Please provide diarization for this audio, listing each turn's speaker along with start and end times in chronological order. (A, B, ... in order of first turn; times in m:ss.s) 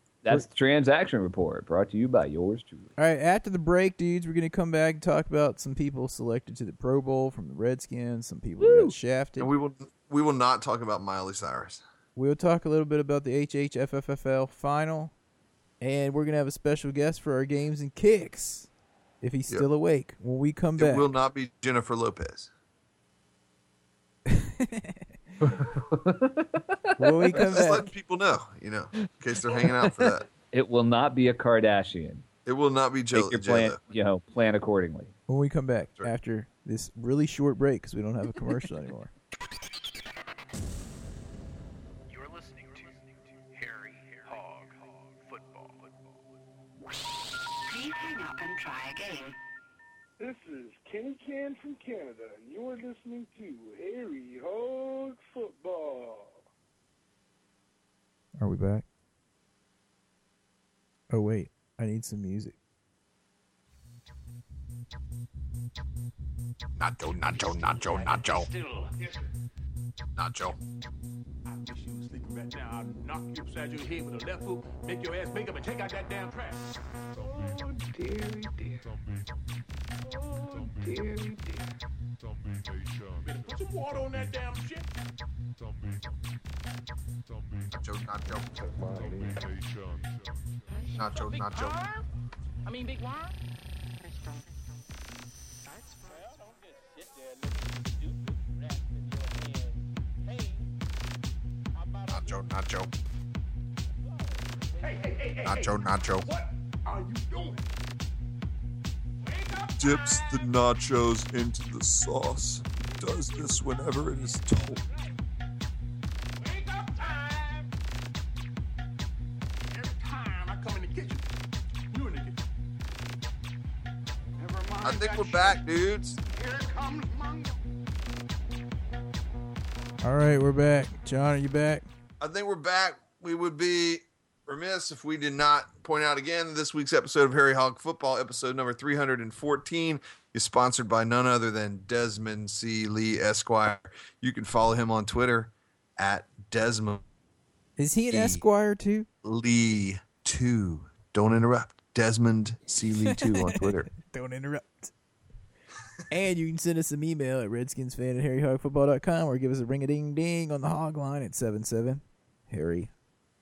0:00.2-0:02.9 A
0:03.0-0:09.5 B
0:08.6-0:08.9 A
0:09.4-0:11.8 C
0:12.2-0:15.1 B
0:15.8-0:18.7 B
0:19.2-0:21.0 B
0:20.8-0:22.5 C
0:24.3-0:25.0 B
0:25.5-0:27.5 A
0:27.0-0:27.9 B
0:27.3-0:30.3 C
0:29.0-0:32.2 A
0:32.4-0:33.8 C
0:33.1-0:35.1 A
0:35.3-0:39.1 B
0:43.9-0:44.7 D
0:47.7-0:49.4 D
0:50.2-0:56.2 E
0:58.4-0:58.8 B
1:01.1-1:02.6 B
1:06.8-1:08.5 C
1:10.1-1:10.6 C
1:11.6-1:16.5 F
1:11.6-1:16.5 E
1:23.2-1:24.8 F
1:23.5-1:24.7 E
1:27.8-1:29.3 C
1:30.9-1:31.8 C
1:39.1-1:39.7 E
1:41.9-1:42.3 F
1:42.1-1:42.9 C
1:44.8-1:45.6 E
1:44.8-1:47.6 F
1:45.4-1:46.3 C
1:47.0-1:47.5 E
1:49.3-1:50.2 F
1:49.4-1:49.9 E
1:49.8-1:54.8 C
1:56.4-1:57.6 F
1:56.9-1:57.3 E
1:59.7-2:01.2 F
2:01.9-2:02.4 F
2:04.4-2:05.3 E
2:04.4-2:05.6 F
2:04.8-2:06.2 C
2:06.4-2:07.0 E
2:06.4-2:07.3 F
2:10.0-2:11.9 B
2:12.2-2:27.0 C
2:27.8-2:29.1 B
2:28.1-2:28.4 C
2:29.2-2:33.9 C
2:33.0-2:34.9 B
2:36.1-2:42.9 B